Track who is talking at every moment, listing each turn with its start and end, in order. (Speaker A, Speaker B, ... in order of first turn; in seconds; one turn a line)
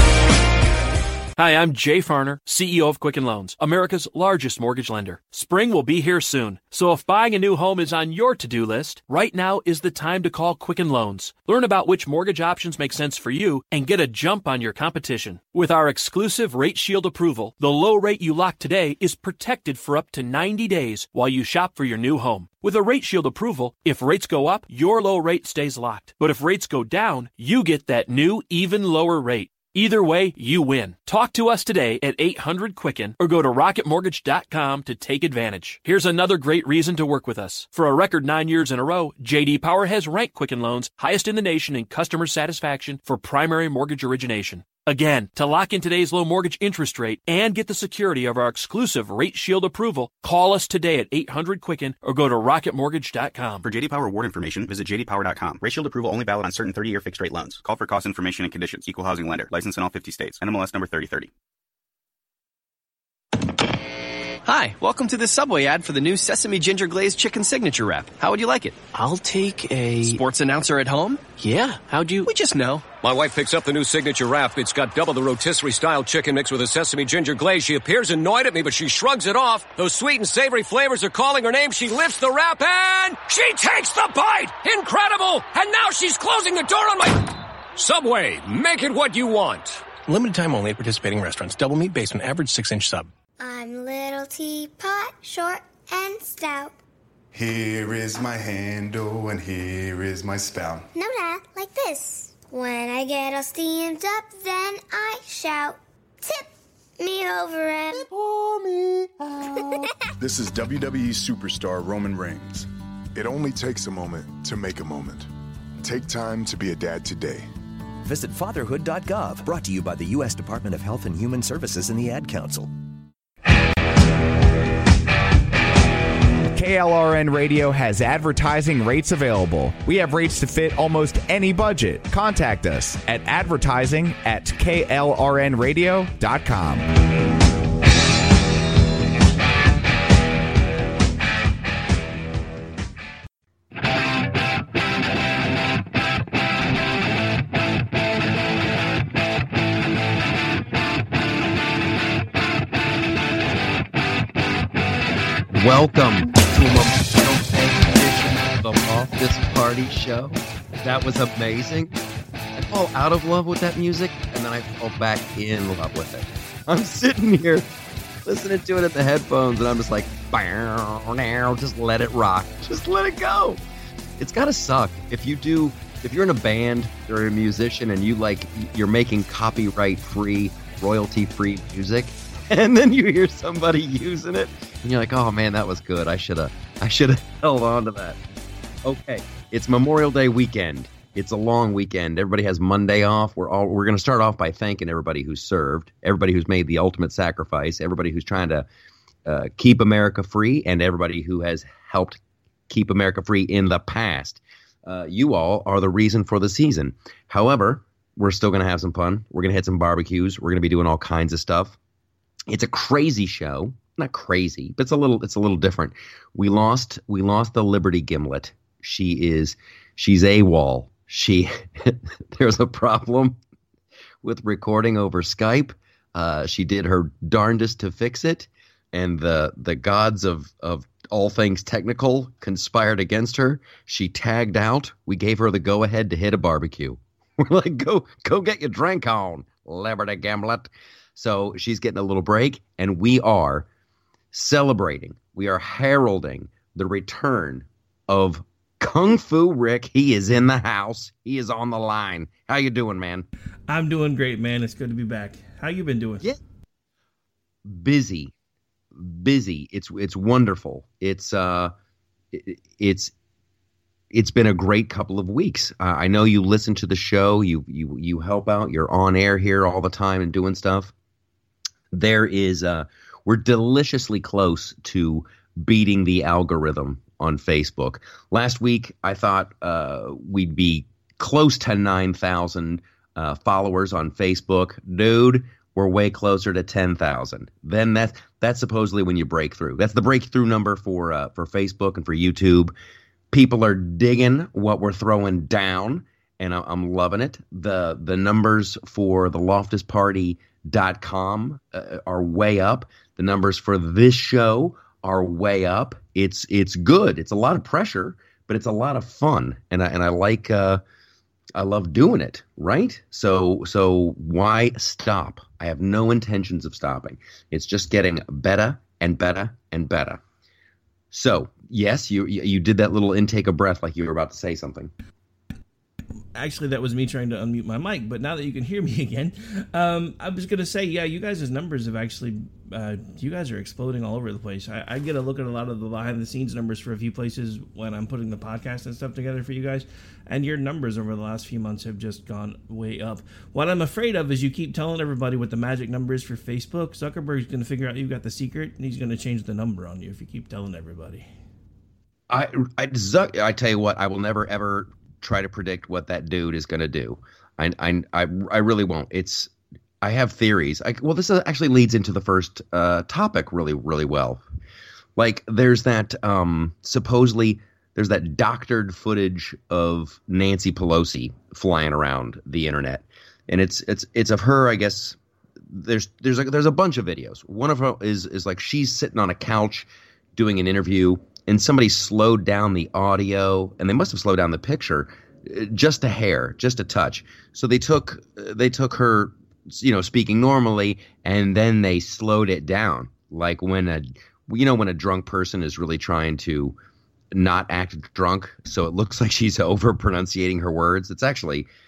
Speaker A: 1.4-53.6
Speaker B: 53.6-61.3
Speaker C: 64.4-72.9
Speaker D: 73.0-89.8
Speaker E: 90.0-93.1
Speaker F: 93.4-96.8
Speaker G: 97.3-100.9
Speaker F: 100.9-108.1
Speaker G: 108.1-115.3
Speaker F: 109.5-109.8
Speaker G: 115.8-117.5
Speaker H: 118.0-122.7
Speaker I: 126.5-136.8
Speaker J: 155.5-161.9
Speaker J: 162.6-167.7
Speaker J: 168.2-173.6
Speaker J: 174.2-188.2
Speaker J: 188.8-198.7
Speaker J: 199.2-211.8
Speaker J: 212.5-223.4
Speaker J: 224.2-243.7
Speaker J: 244.3-253.3
Speaker K: 253.7-256.2
Speaker J: 257.6-258.3
Speaker J: 258.9-261.7
Speaker J: 262.3-263.1
Speaker J: 264.1-270.9
Speaker J: 271.9-292.7
Speaker J: 293.3-310.8
Speaker J: 311.6-320.2
Speaker J: 321.1-324.9
Speaker K: 326.3-351.3
Speaker J: 352.3-359.5
Speaker J: 360.0-364.4
Speaker J: 365.2-375.2
Speaker J: 375.7-396.7
Speaker J: 397.3-401.7